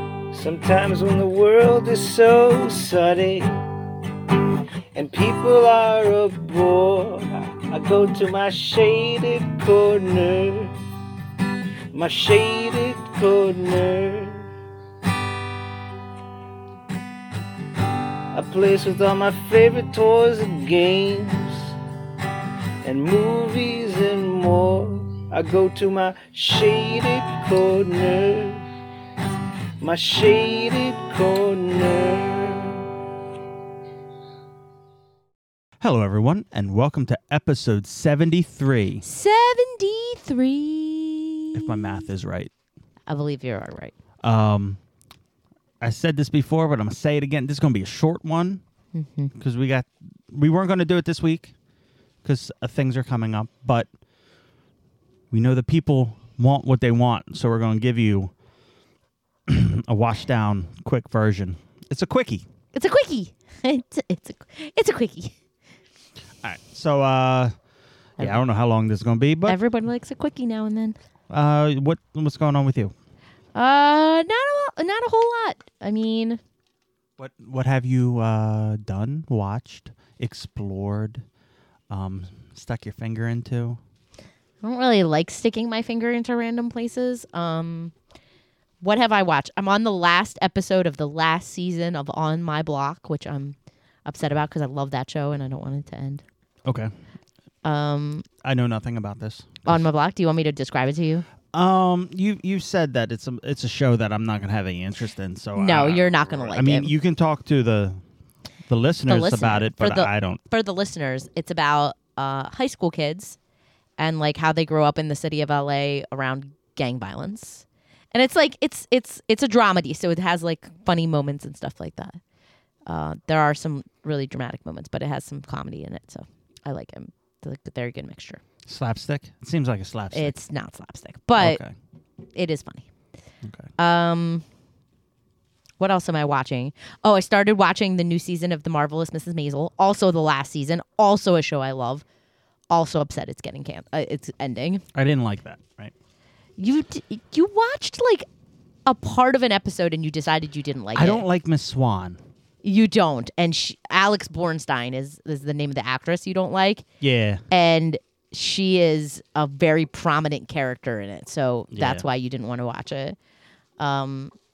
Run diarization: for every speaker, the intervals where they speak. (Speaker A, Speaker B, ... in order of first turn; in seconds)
Speaker A: 0.3-3.5, 4.9-10.7, 11.9-14.5, 18.3-21.8, 22.8-28.6, 29.8-32.8
Speaker B: 35.8-39.0, 41.5-42.5, 44.2-44.8, 45.8-48.6, 49.4-51.5, 52.2-53.9, 55.3-58.3, 59.5-62.5, 66.4-67.5, 68.2-69.6, 71.3-72.9, 77.2-81.2, 81.9-83.8, 96.7-96.9, 98.4-99.8, 101.5-108.0, 108.7-110.4, 128.7-130.3, 131.4-131.7, 133.4-133.7, 144.9-145.9, 150.9-152.2, 157.0-157.4, 161.7-162.1
Speaker C: 39.0-42.0, 43.1-43.9, 48.9-49.3, 62.7-65.3, 69.5-71.0, 73.5-76.4, 84.6-87.9, 88.8-96.2, 97.6-98.3, 99.7-101.3, 105.6-106.9, 109.1-113.4, 114.0-122.2, 122.9-128.4, 130.1-131.6, 132.3-132.9, 133.8-134.4, 135.8-142.0, 142.7-144.8, 146.6-148.3, 148.9-151.2, 152.6-156.9, 157.5-163.2, 163.8-164.3